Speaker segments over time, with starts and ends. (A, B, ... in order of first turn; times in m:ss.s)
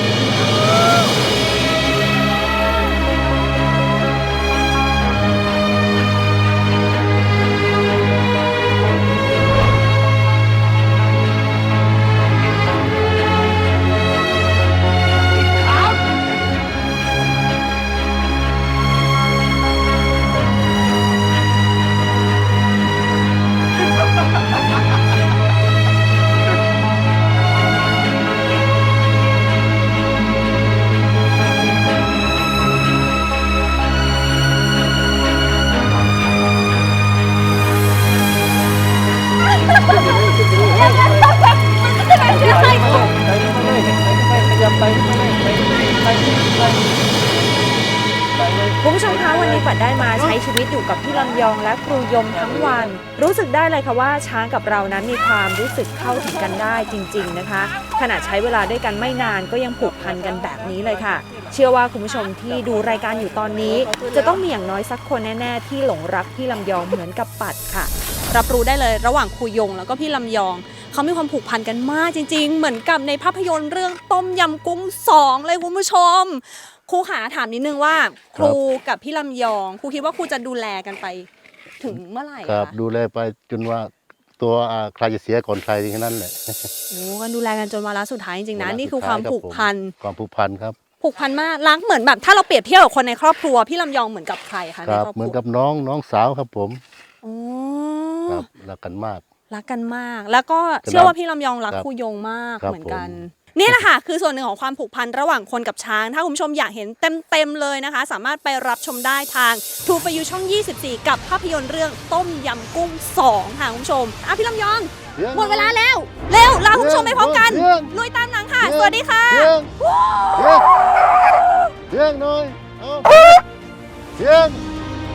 0:00.3-0:01.2 A
0:42.0-0:43.1 A
0:42.2-0:43.1 B
0:48.8-1:07.9 B
1:08.3-1:21.3 A
1:21.8-1:22.8 A
1:22.4-1:26.7 C
1:26.9-1:29.9 A
1:28.5-1:30.8 C
1:31.0-1:35.4 A
1:34.8-1:36.8 C
1:37.2-1:38.5 A
1:38.3-1:39.2 C
1:39.5-2:01.4 A
1:40.8-1:41.2 C
1:42.6-1:43.7 C
1:55.2-1:55.8 C
1:56.7-1:57.9 C
1:58.6-1:59.7 C
2:00.3-2:00.7 C
2:01.9-2:03.4 C
2:04.2-2:04.6 C